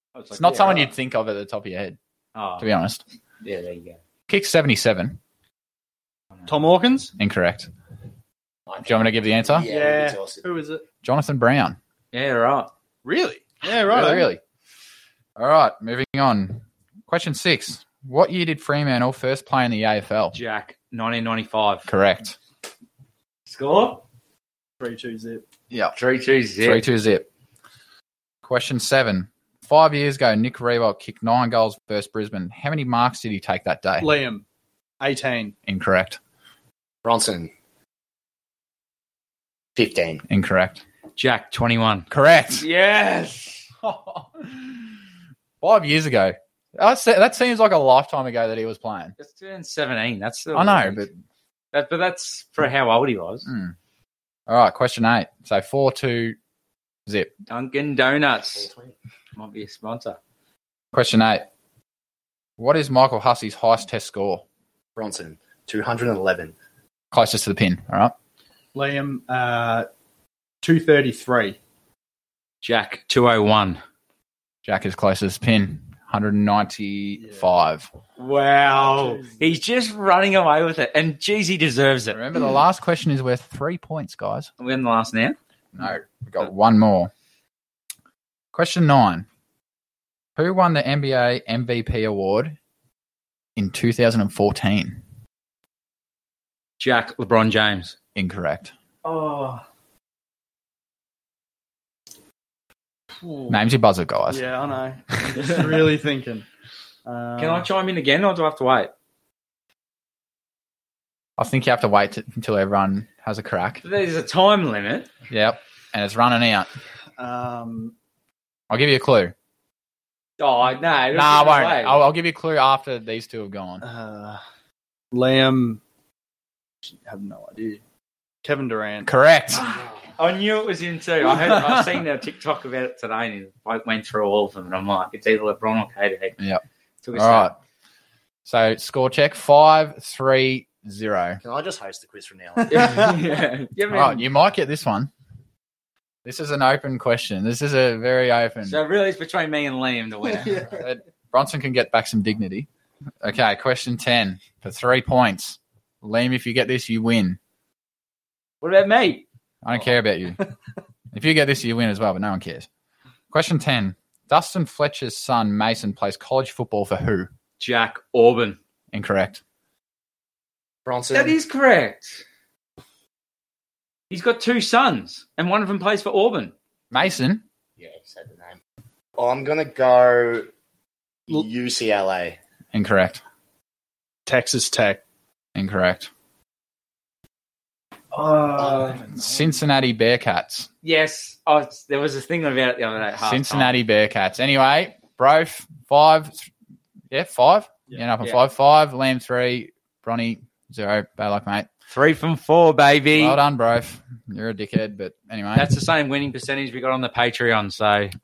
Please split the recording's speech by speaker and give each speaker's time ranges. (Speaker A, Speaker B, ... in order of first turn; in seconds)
Speaker A: 0.1-0.9, 2.4-2.7, 3.4-4.0, 12.1-12.7, 20.3-21.9, 23.5-24.0, 25.9-26.9, 41.2-43.7, 49.2-51.1, 51.7-53.5, 57.5-58.7, 59.4-60.2, 72.6-73.8, 78.2-82.2, 84.6-85.4, 96.8-98.0, 107.4-108.9, 113.8-115.1, 120.4-122.1, 130.1-136.4, 137.0-137.5, 142.7-144.2, 148.7-150.7, 158.6-159.3, 167.6-168.6, 171.1-172.2, 174.1-176.5, 188.6-189.0, 190.8-193.7, 201.9-203.4, 205.6-208.1
Speaker B: 0.3-2.0, 2.6-3.0, 4.3-5.2, 7.2-7.7, 8.8-9.7, 11.0-11.8, 13.8-14.4, 15.4-20.4, 21.9-22.4, 26.6-27.3, 28.4-34.1, 35.7-36.2, 40.3-40.8, 42.1-42.6, 43.8-44.9, 45.6-49.1, 50.5-51.2, 53.5-53.8, 54.5-56.4, 57.1-57.3, 60.9-61.5, 62.6-64.4, 67.1-68.1, 74.7-77.9, 82.1-84.5, 85.7-87.1, 88.5-89.3, 90.4-92.6, 93.6-95.0, 98.2-98.7, 103.5-104.5, 111.4-113.8, 115.3-116.7, 118.7-119.3, 121.1-123.8, 129.0-129.6, 137.2-137.5, 138.5-141.4, 143.9-145.1, 146.2-148.8, 150.7-152.7, 153.2-157.4, 159.6-160.4, 161.1-162.7, 163.3-167.3, 168.9-169.4, 176.9-177.4, 182.7-183.2, 185.6-186.1, 189.1-190.7, 193.2-196.5, 197.1-201.7, 203.1-205.7
Speaker C: 6.5-7.1, 9.6-10.8, 13.1-14.3, 24.8-25.4, 34.0-34.4, 35.0-35.5, 68.8-69.9, 70.6-71.6, 77.2-77.5, 78.7-79.6, 99.0-99.6, 103.2-103.6, 104.3-106.5, 107.1-107.7, 117.2-117.9, 123.8-124.4, 125.1-125.8, 126.8-127.8, 128.4-129.1, 184.3-185.0, 188.2-189.2
Speaker D: 8.7-10.4, 37.0-37.5, 39.8-40.2, 58.6-59.0, 65.0-66.5, 141.4-143.1, 170.8-171.4, 177.8-178.6, 179.2-180.5, 181.3-182.4